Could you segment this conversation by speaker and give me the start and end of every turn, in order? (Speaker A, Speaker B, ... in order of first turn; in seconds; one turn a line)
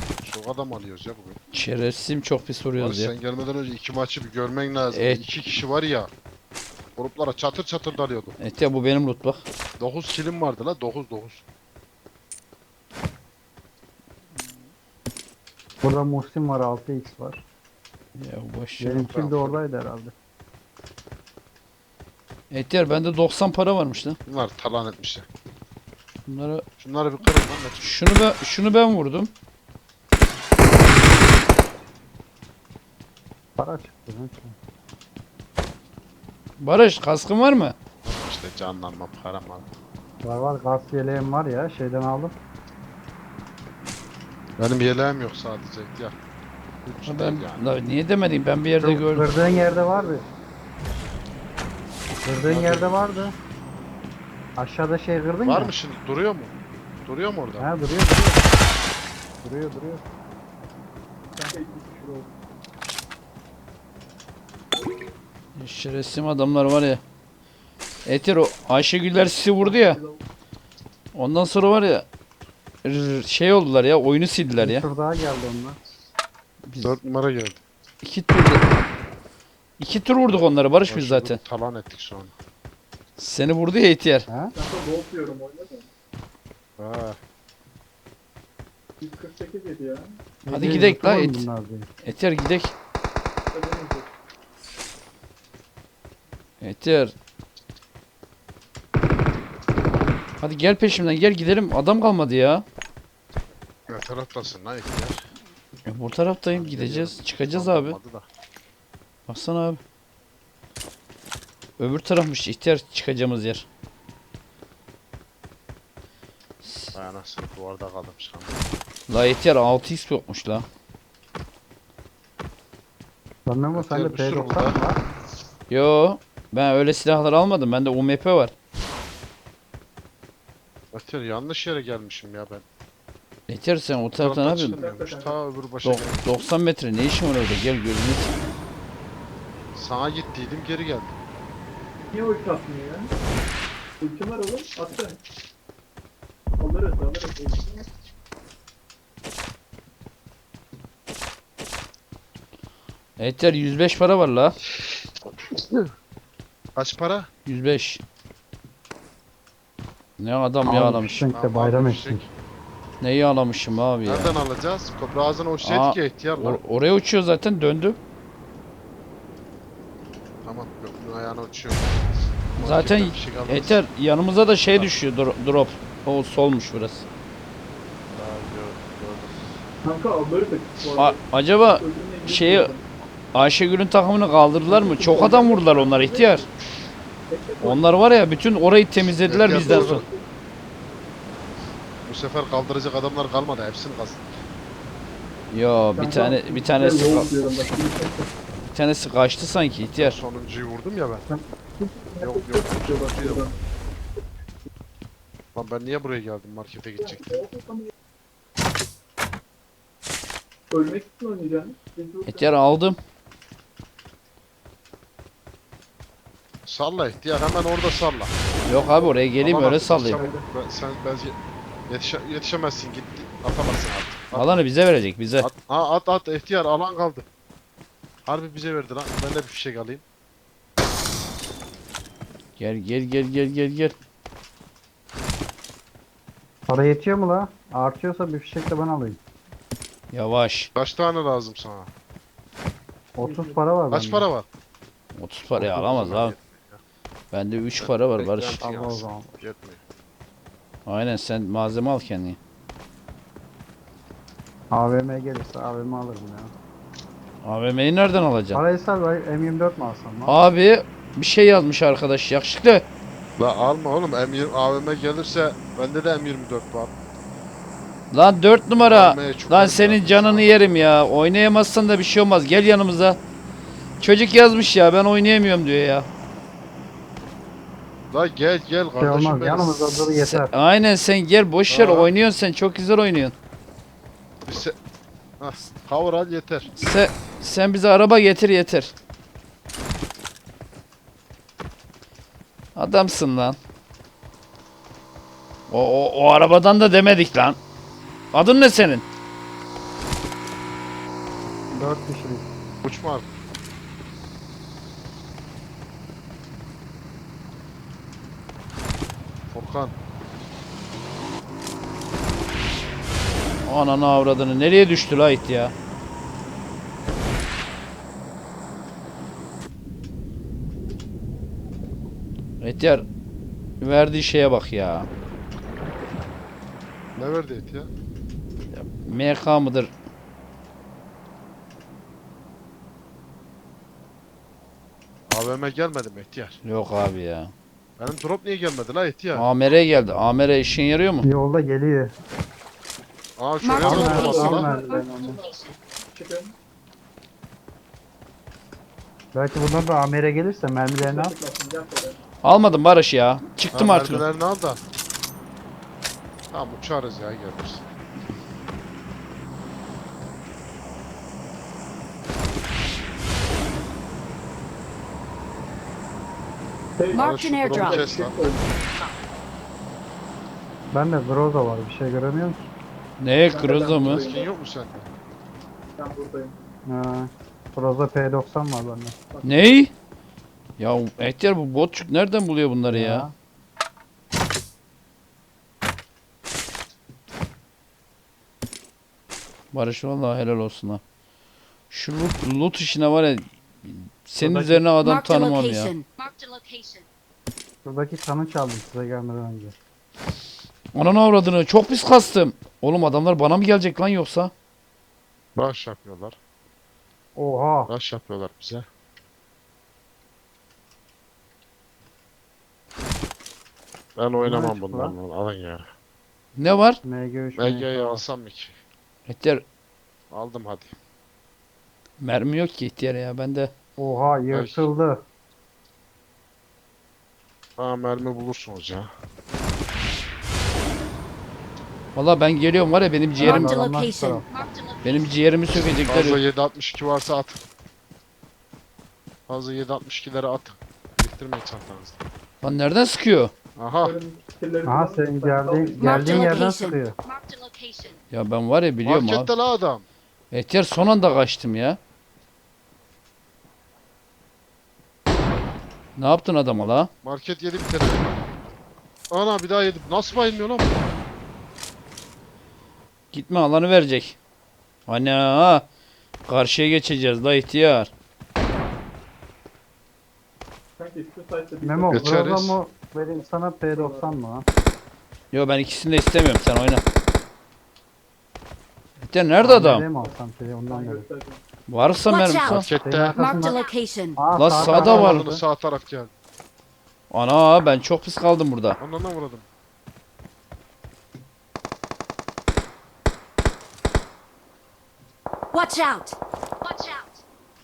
Speaker A: 0.2-1.4
Speaker B: 1.5-3.1
Speaker A: 2.8-6.1
Speaker B: 4.9-5.2
Speaker A: 7.0-8.3
Speaker B: 8.4-9.4
Speaker A: 9.8-11.4
Speaker C: 15.8-17.4
Speaker B: 18.2-19.1
Speaker C: 18.8-20.1
Speaker A: 19.1-19.6
Speaker B: 22.5-24.2
Speaker A: 24.3-25.3
Speaker B: 26.3-26.6
Speaker A: 26.8-28.0
Speaker B: 27.8-29.3
Speaker C: 33.6-34.6
Speaker B: 36.6-37.8
Speaker A: 38.0-39.6
Speaker C: 40.2-42.4
Speaker A: 44.6-46.2
Speaker A: 46.9-47.6
Speaker B: 47.0-49.3
Speaker C: 48.8-50.2
Speaker D: 49.5-50.1
Speaker C: 52.2-53.4
Speaker A: 52.4-53.3
Speaker C: 54.6-55.7
Speaker A: 55.5-56.5
Speaker A: 57.0-57.7
Speaker C: 57.6-58.5
Speaker C: 59.4-60.0
Speaker D: 61.4-62.3
Speaker B: 65.6-67.0
Speaker B: 68.1-70.0
Speaker D: 69.6-70.2
Speaker B: 71.2-72.1
Speaker B: 72.8-74.9
Speaker C: 74.6-75.8
Speaker B: 76.7-77.0
Speaker A: 76.8-77.6
Speaker B: 78.0-78.6
Speaker B: 79.8-81.4
Speaker A: 80.9-82.3
Speaker B: 83.2-84.3
Speaker D: 84.5-85.9
Speaker A: 86.8-87.2
Speaker D: 89.0-90.2
Speaker C: 90.5-91.9
Speaker B: 90.5-91.5
Speaker B: 92.0-92.7
Speaker D: 93.5-94.1
Speaker B: 96.6-97.1
Speaker B: 100.4-102.6
Speaker A: 103.9-105.3
Speaker B: 105.9-108.0
Speaker A: 106.5-108.3
Speaker B: 109.3-109.8
Speaker B: 111.8-113.7
Speaker B: 116.6-117.0
Speaker A: 116.9-118.6
Speaker B: 119.1-120.7
Speaker C: 123.5-125.0
Speaker A: 123.7-124.8
Speaker B: 125.7-128.5
Speaker A: 130.9-132.7
Speaker B: 133.5-134.8
Speaker A: 134.2-136.4
Speaker D: 134.8-135.4
Speaker B: 135.8-138.3
Speaker A: 139.8-141.2
Speaker D: 142.1-143.1
Speaker D: 144.0-145.2
Speaker D: 146.6-147.9
Speaker B: 153.2-154.6
Speaker A: 156.8-157.3
Speaker B: 157.5-158.0
Speaker B: 160.2-161.2
Speaker C: 160.6-162.2
Speaker A: 161.3-162.3
Speaker B: 163.0-164.4
Speaker A: 164.1-166.6
Speaker B: 165.6-168.0
Speaker A: 170.4-172.1
Speaker A: 172.6-173.8
Speaker B: 172.6-177.1
Speaker A: 178.1-179.6
Speaker D: 179.8-182.8
Speaker B: 181.0-182.7
Speaker B: 183.3-186.5
Speaker D: 184.7-186.5
Speaker D: 187.3-187.8
Speaker B: 187.6-190.0
Speaker A: 189.2-190.0
Speaker D: 189.5-190.2
Speaker A: 192.0-194.4
Speaker B: 195.5-197.3
Speaker D: 195.9-198.3
Speaker B: 198.7-200.2
Speaker A: 200.0-201.2
Speaker D: 201.3-203.6
Speaker A: 202.2-203.5
Speaker A: 205.6-207.4
Speaker D: 207.0-207.9
Speaker D: 210.7-212.5
Speaker B: 212.3-213.0
Speaker A: 216.7-218.3
Speaker B: 218.7-220.2
Speaker A: 219.4-221.4
Speaker D: 220.0-220.5
Speaker A: 221.9-224.6
Speaker B: 224.3-225.5
Speaker A: 225.4-227.3
Speaker A: 228.3-230.0
Speaker B: 232.6-233.9
Speaker C: 236.7-239.2
Speaker B: 240.1-240.7
Speaker A: 240.8-241.9
Speaker C: 243.2-244.3
Speaker D: 243.2-243.6
Speaker A: 243.9-244.5
Speaker B: 245.2-246.4
Speaker A: 245.6-246.8
Speaker B: 247.3-248.6
Speaker A: 247.8-249.8
Speaker C: 248.6-249.5
Speaker B: 250.9-252.4
Speaker C: 254.7-256.5
Speaker B: 257.4-258.6
Speaker C: 258.5-260.4
Speaker B: 260.3-262.9
Speaker A: 263.4-266.9
Speaker B: 268.1-273.2
Speaker A: 268.9-270.6
Speaker B: 274.0-276.1
Speaker A: 278.1-279.9
Speaker C: 279.0-280.5
Speaker B: 280.1-283.3
Speaker A: 281.7-282.1
Speaker A: 284.4-284.8
Speaker A: 285.4-286.7
Speaker B: 286.8-288.9
Speaker B: 292.8-293.6
Speaker B: 295.7-297.6
Speaker B: 298.3-299.1
Speaker C: 301.7-302.5
Speaker A: 302.8-303.3
Speaker A: 309.5-309.9
Speaker B: 313.7-315.7
Speaker B: 322.6-323.0
Speaker B: 323.8-325.1
Speaker A: 327.2-327.9
Speaker B: 328.7-329.9
Speaker A: 335.3-336.6
Speaker B: 336.6-337.5
Speaker A: 338.0-339.5
Speaker B: 339.4-341.2
Speaker C: 341.2-342.1
Speaker A: 343.4-344.7
Speaker E: 343.6-345.8
Speaker C: 343.8-345.4
Speaker D: 343.9-346.5
Speaker C: 349.3-351.3
Speaker D: 351.0-352.2
Speaker B: 352.4-354.2
Speaker A: 353.7-354.8
Speaker A: 356.5-357.9
Speaker D: 367.0-368.8
Speaker E: 367.1-369.1
Speaker A: 367.1-368.4
Speaker C: 370.9-372.7
Speaker B: 373.2-374.2
Speaker D: 373.5-374.5
Speaker A: 374.0-375.1
Speaker D: 376.0-376.6
Speaker C: 376.9-379.2
Speaker D: 379.3-379.6
Speaker B: 379.4-379.9
Speaker B: 380.8-383.3
Speaker C: 382.9-383.3
Speaker B: 389.7-391.0
Speaker B: 391.9-395.9
Speaker C: 394.4-394.8
Speaker E: 395.0-397.1
Speaker C: 397.9-399.8
Speaker B: 400.9-404.5
Speaker A: 405.6-406.4
Speaker C: 407.4-407.9
Speaker A: 407.9-408.9
Speaker A: 414.2-415.9
Speaker C: 414.4-415.1
Speaker B: 416.6-417.0
Speaker C: 417.0-418.2
Speaker A: 417.6-418.8
Speaker B: 419.3-419.6
Speaker A: 420.3-420.9
Speaker B: 422.2-423.7
Speaker C: 424.0-425.2
Speaker A: 424.5-424.9
Speaker A: 427.8-429.1
Speaker B: 432.1-433.8
Speaker C: 433.4-434.4
Speaker E: 433.4-435.4
Speaker B: 435.1-436.4
Speaker A: 436.1-437.6
Speaker A: 439.5-442.2
Speaker B: 442.6-443.5
Speaker A: 443.8-444.2
Speaker D: 444.0-446.6
Speaker C: 444.9-447.2
Speaker E: 446.0-448.2
Speaker B: 448.3-449.5
Speaker A: 449.1-450.1
Speaker B: 450.5-452.0
Speaker B: 456.2-457.1
Speaker A: 457.2-458.5
Speaker A: 459.3-461.1
Speaker B: 463.3-464.4
Speaker B: 465.1-465.9
Speaker B: 466.5-468.1
Speaker D: 471.0-472.6
Speaker C: 471.8-474.7
Speaker A: 472.1-472.8
Speaker D: 473.9-474.4
Speaker B: 475.5-477.0
Speaker B: 479.2-480.1
Speaker C: 479.6-481.3
Speaker D: 480.9-481.6
Speaker B: 481.9-482.9
Speaker E: 482.3-484.4
Speaker A: 482.7-483.8
Speaker C: 483.0-485.6
Speaker B: 484.6-485.4
Speaker A: 484.8-486.3
Speaker B: 487.3-489.0
Speaker A: 489.0-489.7
Speaker E: 495.7-497.4